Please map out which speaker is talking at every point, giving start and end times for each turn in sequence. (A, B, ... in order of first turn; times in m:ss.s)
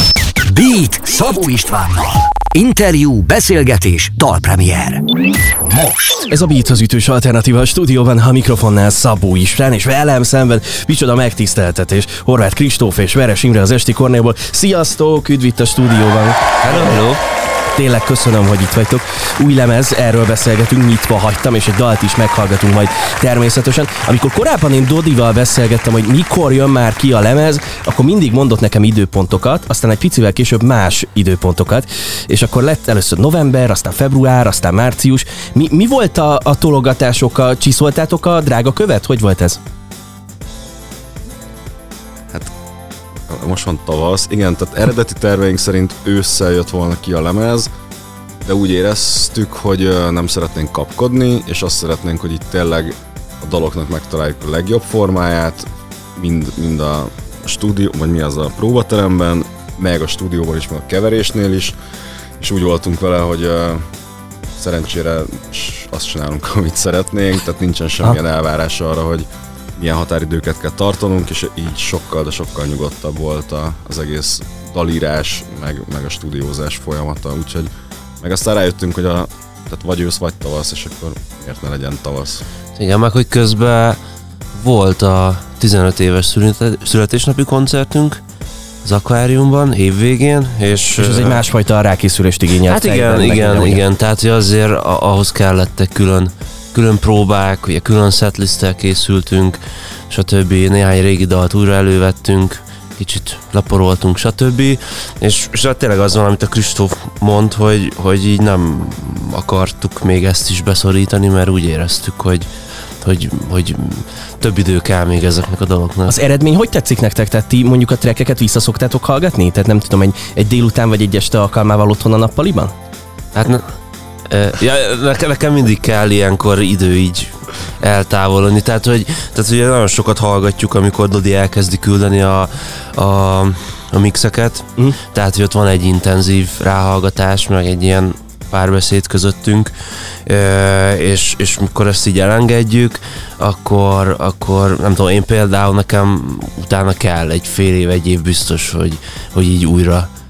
0:00.4-0:05.0 A
0:05.6-0:06.2 A
0:06.3-0:16.9 B
0:16.6-0:17.2 C
0:17.7-0:39.6 B
0:43.2-0:47.7 D
0:48.4-1:01.8 D
1:02.4-1:03.8 D
1:04.6-1:22.4 D
1:22.8-1:24.0 C
1:24.5-1:28.2 C
1:28.8-1:31.4 C
1:31.0-1:33.8 B
1:32.7-1:39.6 C
1:40.1-1:52.5 C
1:53.0-1:56.1 C
1:56.1-2:02.7 B
2:03.3-2:03.6 C
2:04.3-2:19.7 C
2:20.2-2:30.1 C